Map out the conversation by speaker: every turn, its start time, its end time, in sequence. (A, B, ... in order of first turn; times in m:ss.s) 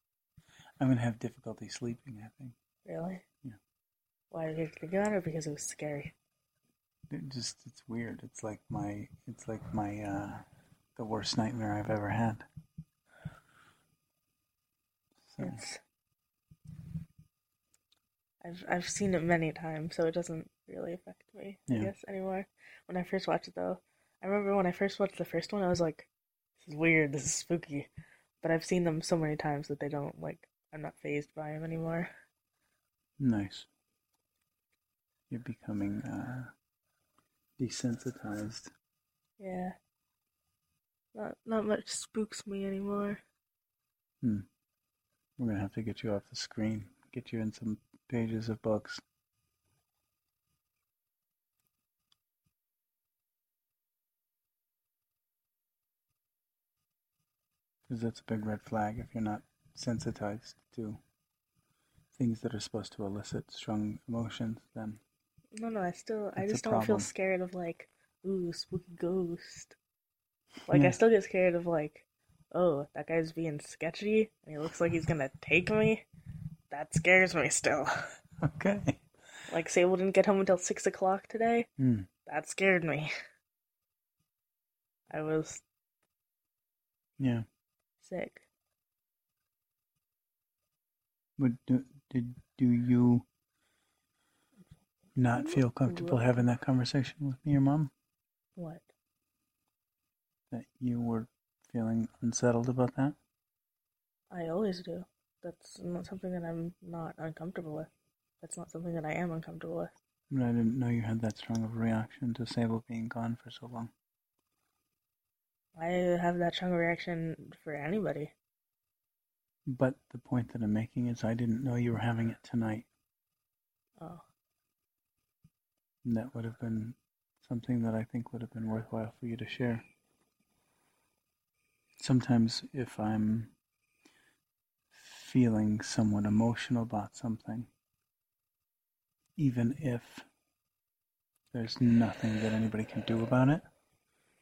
0:00.8-0:02.5 A
0:02.8-0:03.2 B
0:04.3-0:06.1 B
0:07.1-0:10.4 A
0:11.0-0:12.4 A
0:15.2-0:15.6 A
0:15.4-0:15.8 B
0:18.4-0:27.9 B
0:28.4-0:32.1 B
0:33.2-0:33.7 A
0:35.3-0:36.5 A
0:37.6-0:38.7 A
0:39.4-0:39.7 B
0:41.1-0:43.2 B
0:45.4-0:49.0 A
0:57.9-1:01.0 A
1:02.1-1:05.0 A
1:05.6-1:09.8 B
1:06.4-1:07.1 A
1:10.7-1:16.0 B
1:10.7-1:11.0 A
1:16.7-1:17.9 B
1:18.4-1:19.0 A
1:19.5-1:21.7 B
1:21.8-1:22.1 A
1:22.2-1:23.1 B
1:25.1-1:25.6 B
1:27.2-1:27.4 A
1:28.0-1:28.4 B
1:31.4-1:33.2 A
1:35.1-1:37.9 A
1:35.3-1:36.4 B
1:38.6-1:38.8 B
1:40.5-1:43.2 A
1:44.3-1:47.9 B
1:48.4-1:49.9 B
1:50.3-1:53.9 A
1:55.8-1:58.3 B
1:59.7-2:02.9 A
2:06.0-2:09.8 A
2:12.0-2:13.5 A
2:14.9-2:17.7 A
2:19.4-2:20.2 A
2:21.5-2:23.6 A